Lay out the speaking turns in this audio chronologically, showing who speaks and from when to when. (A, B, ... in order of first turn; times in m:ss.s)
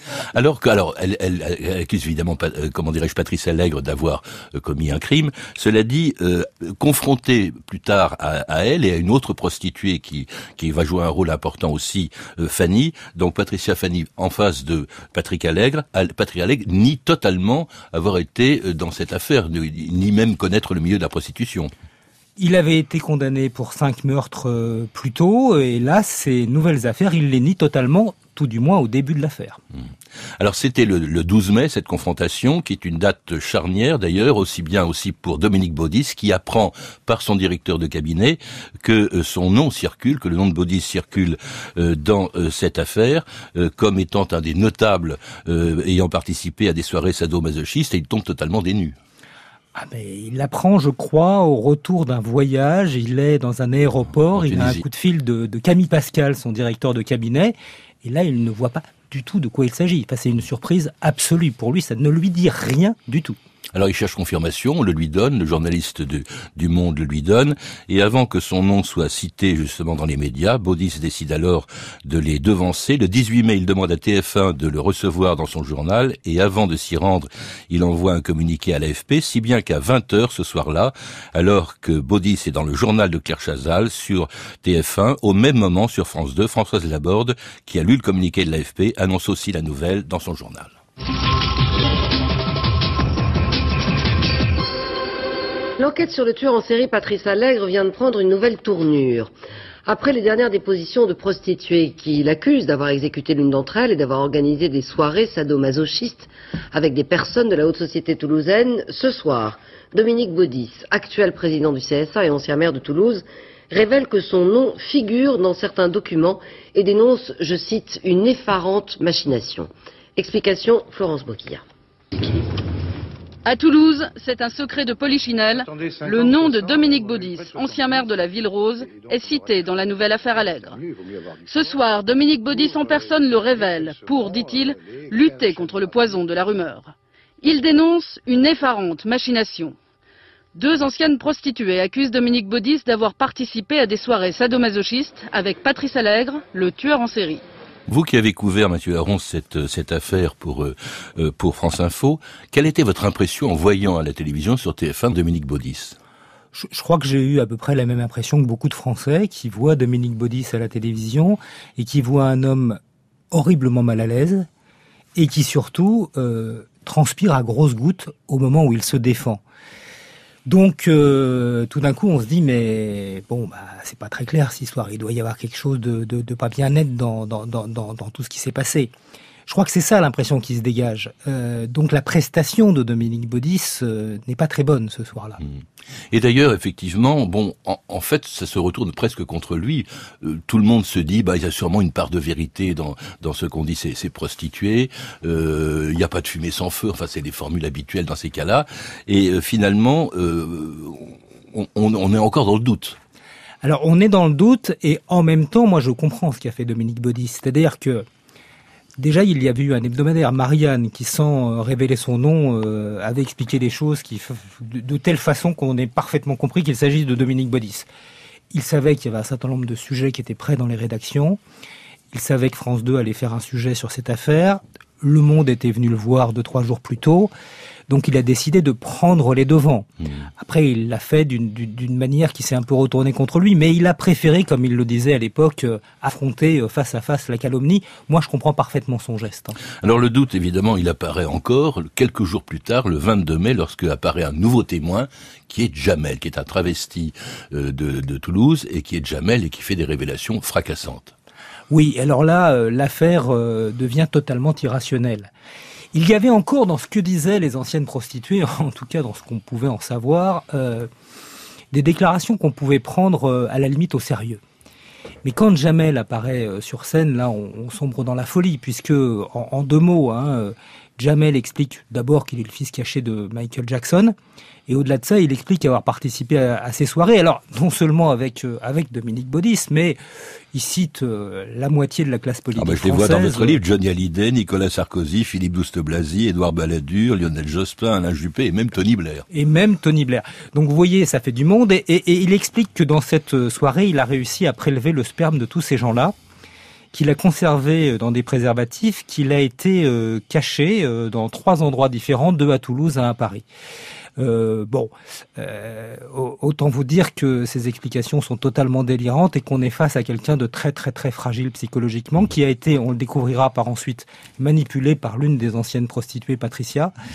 0:00.3-0:21.7 A
0:22.4-0:29.6 B
0:30.4-0:49.0 A
0:49.7-1:03.4 B
0:54.3-0:54.8 A
1:03.7-1:30.7 A
1:35.8-1:39.3 C
1:39.8-2:01.6 C
2:03.4-2:10.8 D
2:11.4-2:19.7 D
2:20.5-2:27.4 D
2:27.9-2:36.0 A
2:36.5-2:42.8 B
2:43.3-2:44.5 B
2:45.1-2:49.4 B
2:50.5-2:58.9 B
2:59.4-3:05.4 B
3:06.1-3:23.0 A
3:23.6-3:28.0 B
3:29.0-3:37.9 B
3:38.5-3:41.4 B
3:42.1-3:47.3 B
3:47.9-3:49.9 B
3:50.4-3:59.6 B
3:59.8-4:11.1 A
4:11.7-4:15.3 B
4:15.9-4:20.9 B
4:21.7-4:24.4 B
4:25.2-4:34.1 B
4:34.7-4:40.0 B
4:40.5-4:43.6 B
4:42.6-4:49.2 A
4:49.3-4:56.1 B
4:56.9-5:03.4 B
5:04.2-5:16.9 B